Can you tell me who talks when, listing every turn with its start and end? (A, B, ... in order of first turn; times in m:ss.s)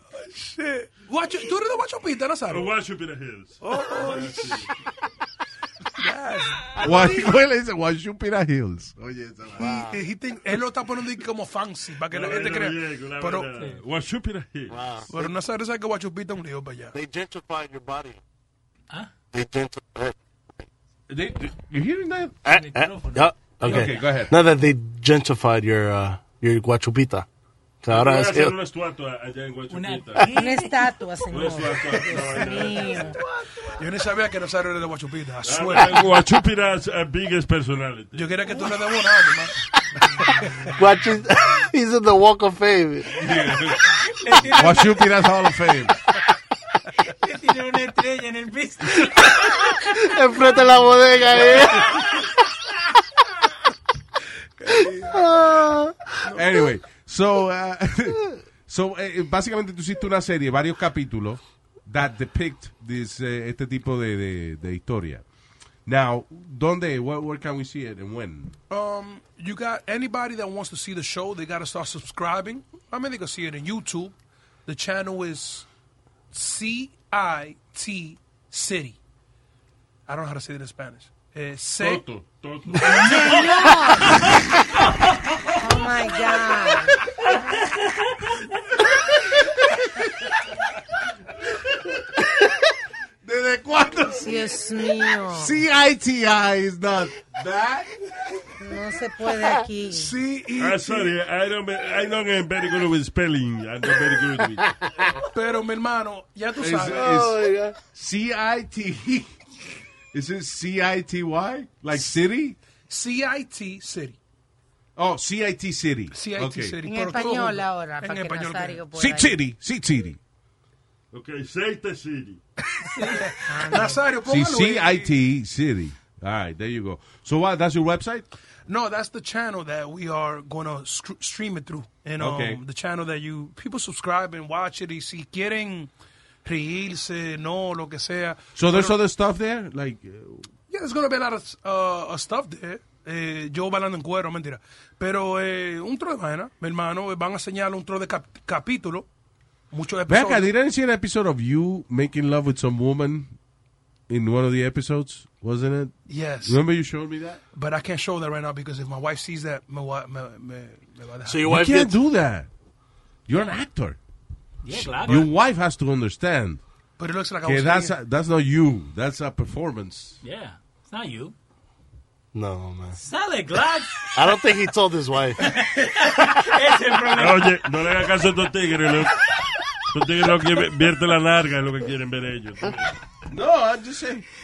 0:00.2-0:02.7 A
0:02.5-0:04.7 B
0:03.6-0:04.6 A
0:06.0-0:07.3 A
0:06.8-0:07.1 C
0:06.8-0:09.8 D
0:09.6-0:10.0 C
0:09.6-0:13.5 A
0:12.1-0:14.8 B
0:14.7-0:15.1 C
0:15.1-0:16.9 A
0:16.9-0:18.2 C
0:19.3-0:20.1 C
0:21.1-0:22.4 D
0:22.4-0:27.3 C
0:22.5-0:24.2 E
0:23.6-0:24.3 D
0:27.8-0:28.5 C
0:27.9-0:30.3 B
0:29.7-0:30.9 E
0:30.3-0:33.2 F
0:31.3-0:33.1 B
0:33.7-0:36.1 A
0:35.4-0:38.4 B
0:38.1-0:39.6 A
0:40.2-0:40.7 A
0:40.8-0:43.2 C
0:43.1-0:45.9 D
0:43.9-0:45.1 E
0:47.0-0:49.9 E
0:49.7-0:51.9 C
0:51.6-0:52.1 E
0:54.6-0:55.3 A
0:54.7-0:56.2 C
0:56.3-1:05.2 D
1:05.8-1:08.5 D
1:08.7-1:14.1 A
1:14.6-1:15.6 A
1:16.3-1:19.0 A
1:20.1-1:22.0 A
1:21.8-1:23.5 B
1:22.9-1:24.3 F
1:25.6-1:27.0 F
1:29.3-1:30.0 D
1:33.2-1:34.5 D
1:34.1-1:35.6 F
1:35.3-1:37.9 D
1:38.6-1:40.1 F
1:39.9-1:41.1 A
1:40.6-1:44.7 B
1:45.3-1:47.2 A
1:46.6-1:49.3 D
1:46.9-1:47.8 C
1:50.1-1:52.6 D
1:52.9-1:54.2 A
1:55.0-1:56.8 D
1:56.1-1:58.8 A
1:56.8-1:59.3 F
1:58.9-2:00.2 D
2:01.1-2:02.4 B
2:02.8-2:05.1 A
2:03.5-2:04.0 F
2:04.2-2:08.2 D
2:08.7-2:15.9 A
2:12.2-2:12.6 D
2:16.4-2:19.0 A
2:18.6-2:20.5 D
2:20.7-2:29.1 A
2:29.7-2:30.5 A
2:30.1-2:33.3 D
2:34.1-2:37.4 D
2:36.1-2:36.6 A
2:37.5-2:41.4 A
2:41.2-2:42.0 C
2:41.4-2:42.5 D
2:43.3-2:44.0 D
2:44.6-2:45.3 E
2:44.8-2:46.6 D
2:44.8-2:45.2 A
2:47.0-2:47.9 A
2:47.4-2:50.2 D
2:50.2-2:51.4 E
2:52.3-2:53.0 C
2:53.0-2:54.2 E
2:54.1-2:55.4 C
2:55.4-2:57.6 E
2:57.0-2:59.2 B
2:59.9-3:02.9 B
3:03.3-3:04.3 D